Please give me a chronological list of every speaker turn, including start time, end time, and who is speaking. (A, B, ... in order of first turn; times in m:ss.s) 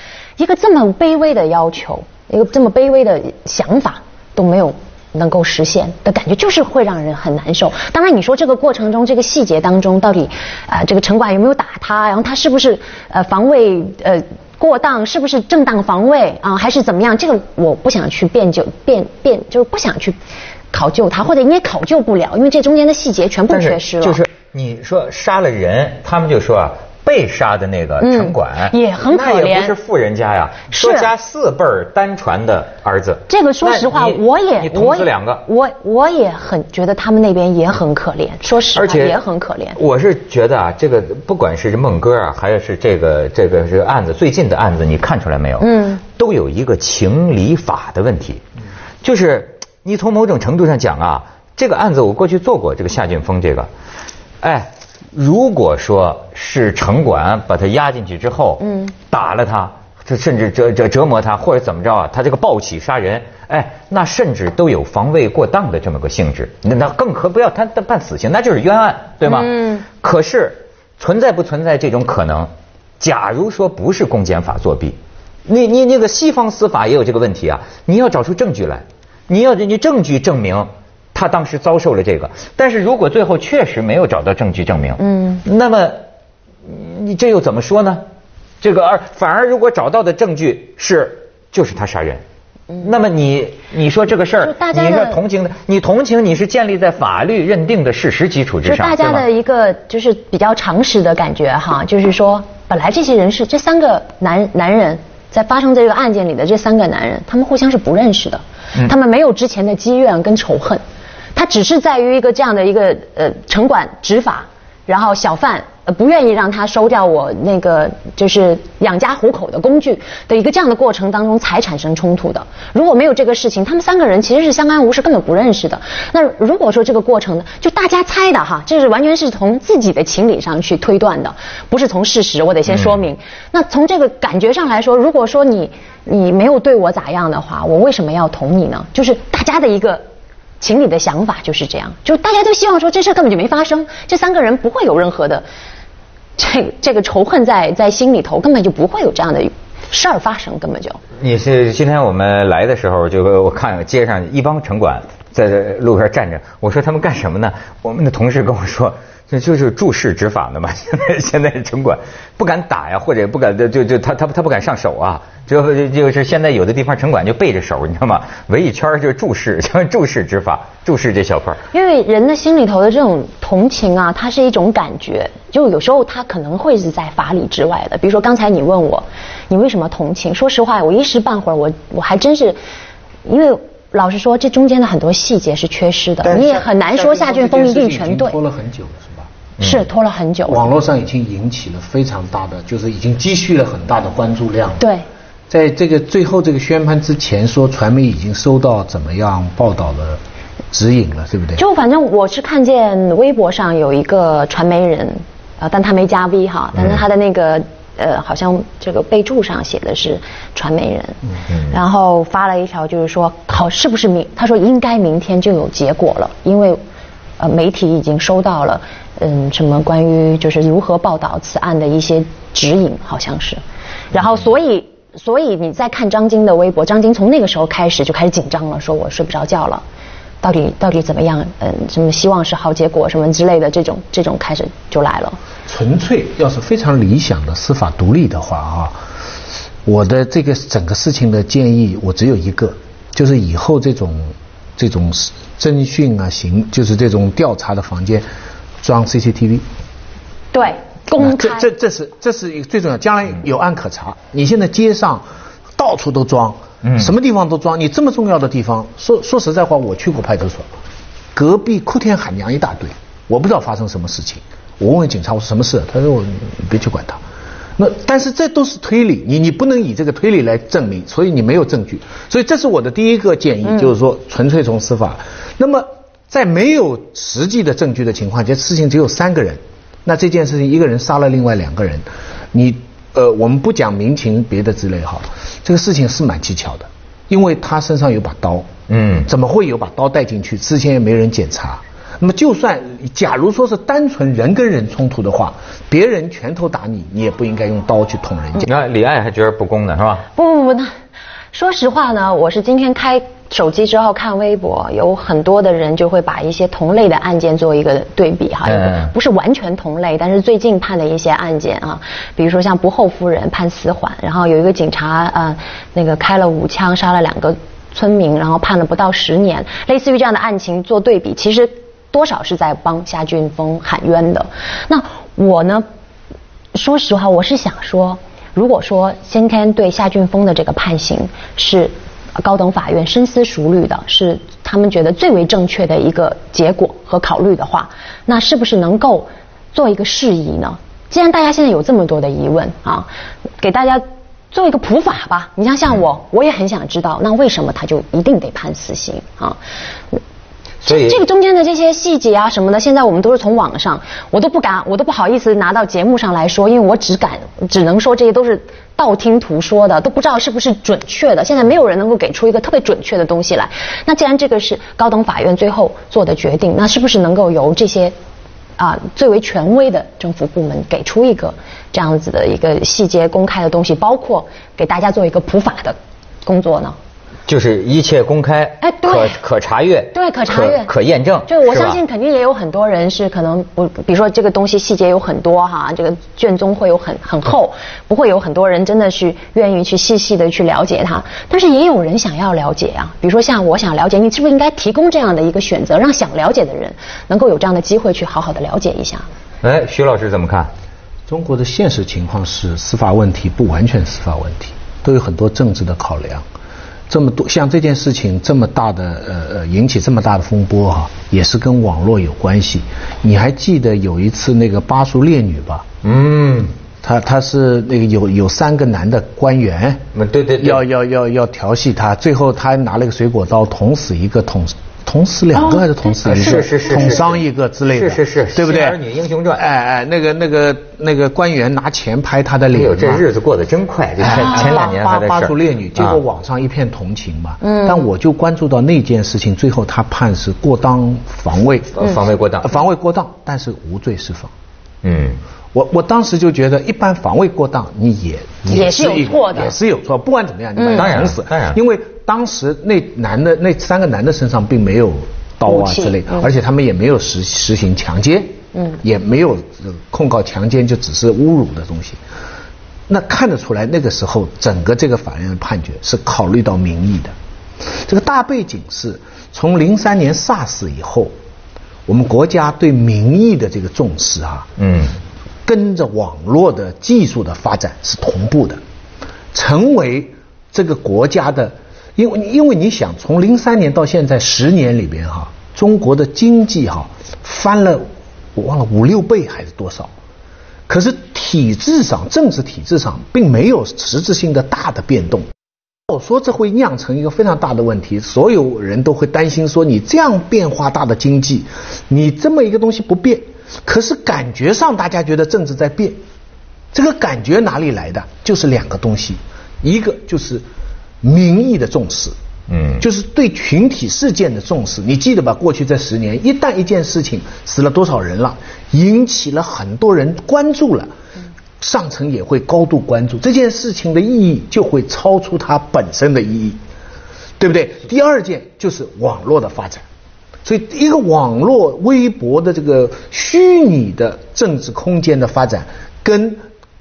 0:00.4-0:20.2 A
0:20.7-0:24.2 A
0:23.5-0:35.4 B
0:28.0-0:29.7 A
0:30.7-0:31.1 A
0:33.3-0:39.8 A
0:38.7-0:39.2 B
0:39.7-0:48.4 B
0:45.6-0:46.0 A
0:49.0-0:53.7 B
0:54.4-1:26.0 B
0:58.6-0:58.9 A
1:09.2-1:09.8 A
1:25.0-1:25.4 A
1:26.6-1:28.0 B
1:28.6-1:32.2 B
1:32.8-1:39.2 B
1:34.4-1:35.2 A
1:38.6-1:50.8 A
1:51.3-2:20.0 A
2:20.6-2:25.4 A
2:26.4-2:31.0 A
2:31.2-2:51.6 B
2:51.7-3:02.6 A
3:03.2-3:08.4 A
3:06.2-3:09.3 C
3:09.6-3:09.9 B
3:09.6-3:10.7 A
3:10.5-3:14.8 C
3:14.8-3:15.0 A
3:15.5-3:20.2 C
3:20.7-3:21.6 C
3:21.6-3:36.8 A
3:37.4-3:43.6 A
3:44.1-3:49.8 A
3:50.4-3:55.4 A
3:55.6-3:59.0 C
3:59.8-4:08.2 C
4:08.8-4:09.6 C
4:10.5-4:11.6 A
4:11.2-4:15.2 C
4:15.8-4:20.7 C
4:16.8-4:17.1 B
4:21.3-4:27.2 C
4:27.8-4:48.7 C
4:48.9-4:49.3 B
4:49.2-4:58.7 C
4:58.6-5:00.3 B
5:00.3-5:00.9 A
5:01.5-5:25.8 A
5:08.7-5:09.1 B
5:26.7-5:43.1 A
5:43.6-5:49.6 A
5:50.8-5:51.2 B
5:50.8-6:08.1 A
6:08.8-6:17.0 A
6:17.5-6:22.0 B
6:18.8-6:19.4 A
6:20.1-6:20.9 A
6:21.5-6:39.3 A
6:39.6-6:40.7 B
6:41.3-6:46.4 C
6:47.1-6:55.8 C
6:56.0-6:56.7 B
6:57.0-7:00.0 C
7:00.1-7:00.8 B
7:00.6-7:09.0 C
7:06.2-7:09.6 B
7:09.5-7:13.2 C
7:12.7-7:16.2 B
7:14.2-7:24.5 C
7:14.3-7:14.8 A
7:17.6-7:18.0 A
7:22.0-7:22.7 B
7:25.0-7:25.4 B
7:25.7-7:42.2 C
7:28.7-7:29.7 A
7:30.8-7:31.1 A
7:30.9-7:31.8 B
7:35.7-7:36.4 A
7:43.1-7:51.3 C
7:52.1-7:54.7 C
7:54.8-7:55.1 B
7:55.6-7:58.8 C
7:59.5-8:10.1 C
8:10.9-8:15.5 C
8:16.1-8:26.2 C
8:26.9-8:30.6 C
8:31.2-8:32.4 C
8:32.7-8:33.0 B
8:33.0-8:41.1 C
8:41.8-8:46.8 C
8:47.6-8:50.0 C
8:50.6-8:56.6 C